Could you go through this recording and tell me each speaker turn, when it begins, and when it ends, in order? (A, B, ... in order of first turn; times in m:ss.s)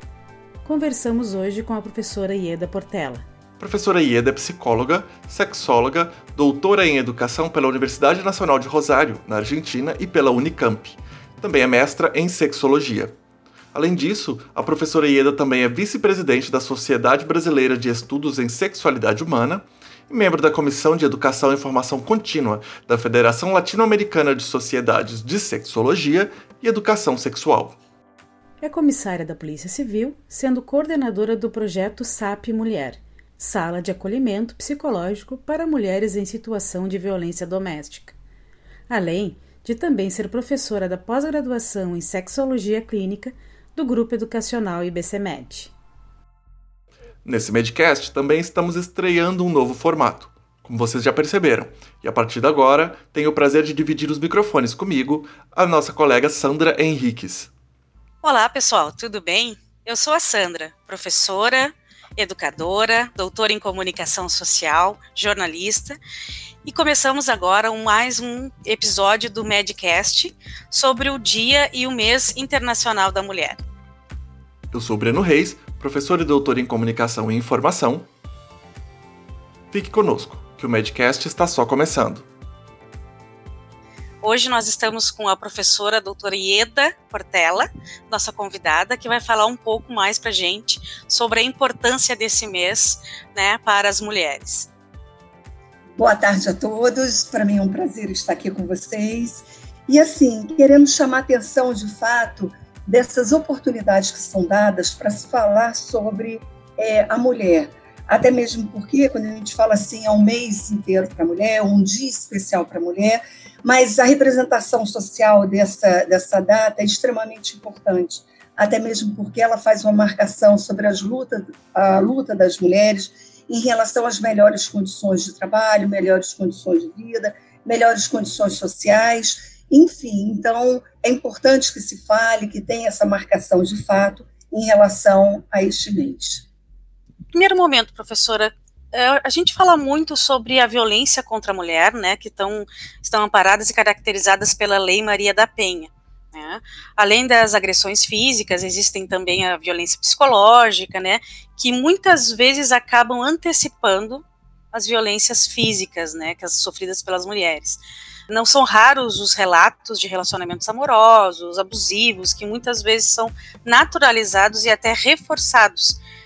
0:00.6-0:03.2 A
0:03.6-0:13.1 B
0:13.7-0:27.8 B
0:28.6-0:38.2 A
0:38.9-0:45.7 A
0:47.2-0:57.5 B
0:58.2-1:06.0 C
1:06.6-1:13.6 C
1:14.7-1:18.1 B
1:19.7-1:22.2 B
1:24.2-1:34.7 C
1:36.0-2:16.4 D
2:17.3-2:46.0 C